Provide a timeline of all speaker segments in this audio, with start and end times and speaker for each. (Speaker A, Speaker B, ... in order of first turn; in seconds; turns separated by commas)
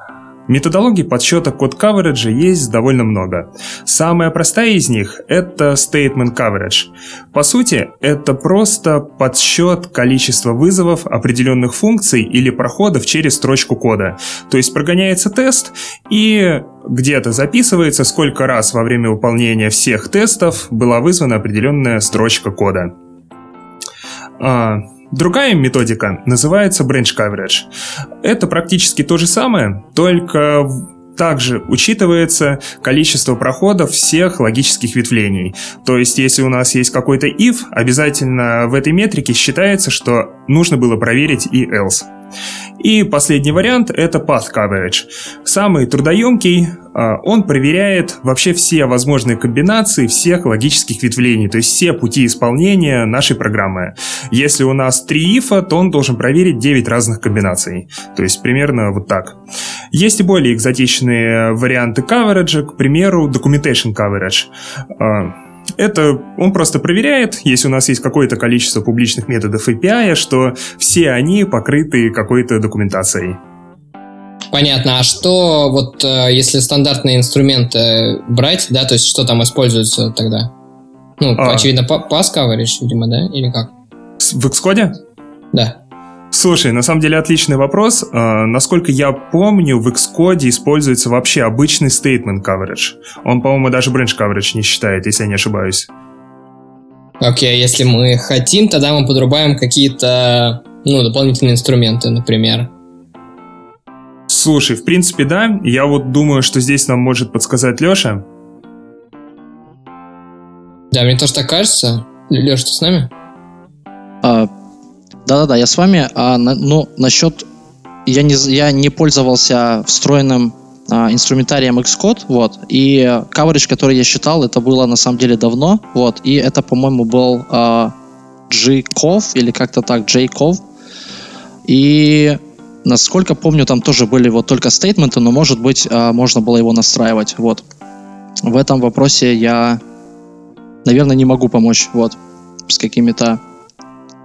Speaker A: 0.5-22.9, Speaker A: 24.4-27.7, Speaker A: 28.2-42.1, Speaker A: 42.8-59.4, Speaker A: 59.9-73.4, Speaker B: 74.5-80.5, Speaker B: 81.2-83.7, Speaker A: 81.4-81.7, Speaker A: 84.2-85.0, Speaker B: 85.5-85.8, Speaker A: 86.3-95.9, Speaker B: 97.2-102.7, Speaker A: 104.3-108.2, Speaker B: 110.9-113.1, Speaker C: 114.2-114.5, Speaker C: 115.2-117.4, Speaker C: 118.0-127.9, Speaker C: 128.5-130.6, Speaker C: 131.6-137.6, Speaker C: 138.4-139.8, Speaker C: 140.8-143.4